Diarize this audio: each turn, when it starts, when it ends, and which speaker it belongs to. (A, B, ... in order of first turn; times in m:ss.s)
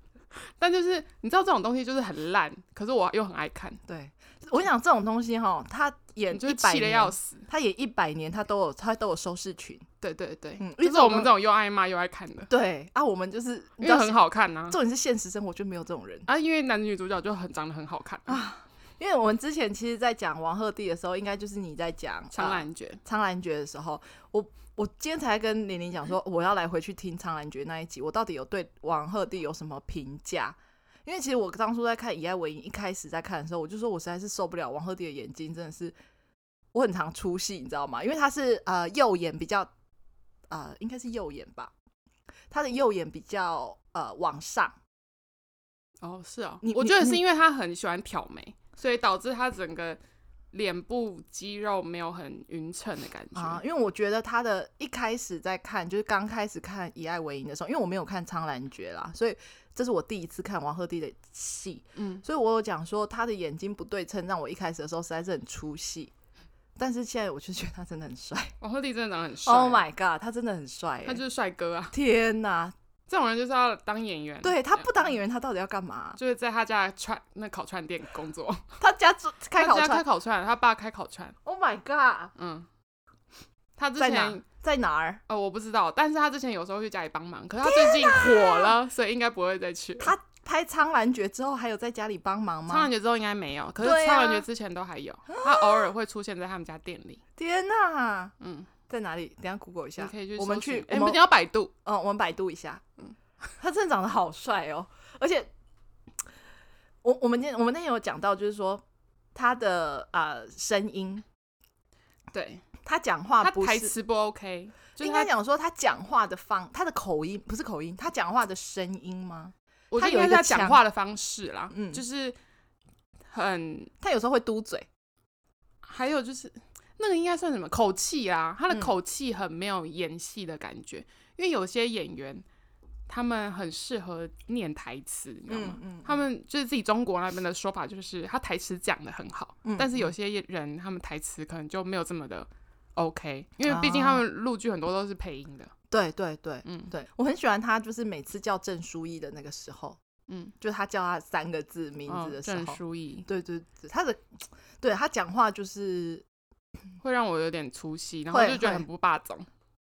0:00.4-0:03.8 A
0:03.9-0:09.8 B
0:06.3-0:07.5 A
0:10.0-0:12.5 A
0:10.6-0:11.3 B
0:12.5-0:16.3 B
0:13.8-0:14.8 A
0:16.3-0:18.4 A
0:18.3-0:35.9 B
0:22.3-0:23.0 A
0:36.7-0:39.7 B
0:40.5-0:41.7 B
0:42.5-0:44.8 B
0:46.0-0:50.0 A
0:46.6-0:47.2 B
0:50.5-0:53.6 A
0:53.3-1:06.1 B
1:02.0-1:02.2 A
1:06.8-1:08.5 B
1:08.6-1:09.8 A
1:09.4-1:11.2 B
1:11.0-1:11.9 A
1:11.9-1:12.7 B
1:13.1-1:15.0 A
1:14.4-1:16.2 B
1:16.2-1:18.6 A
1:18.8-1:20.0 B
1:19.6-1:21.4 A
1:21.4-1:22.3 B
1:22.4-1:22.7 A
1:23.8-1:24.4 A
1:24.0-1:25.2 B
1:25.3-1:30.2 A
1:27.6-1:28.7 B
1:30.0-1:32.9 B
1:32.7-1:37.2 A
1:33.8-1:34.4 B
1:35.3-1:35.9 B
1:37.4-1:38.3 B
1:38.4-1:38.7 A
1:38.9-1:41.2 B
1:40.0-1:41.7 A
1:41.8-1:42.8 B
1:43.6-1:45.5 B
1:47.0-1:48.8 B
1:49.3-1:51.2 B
1:52.3-1:52.6 A
1:52.8-1:53.9 B
1:53.4-1:55.3 A
1:55.0-2:00.8 B
1:59.9-2:02.4 A
2:01.7-2:02.0 B
2:03.3-2:03.9 A
2:04.0-2:04.9 B
2:05.8-2:12.4 A
2:13.1-2:25.7 A
2:15.5-2:16.2 B
2:19.6-2:20.1 B
2:23.6-2:24.2 B
2:25.9-2:30.0 B
2:26.6-2:26.9 A
2:30.3-2:30.5 A
2:30.6-2:34.3 B
2:32.1-2:33.3 A
2:34.8-2:36.2 B
2:37.0-2:39.5 A
2:38.3-2:38.8 B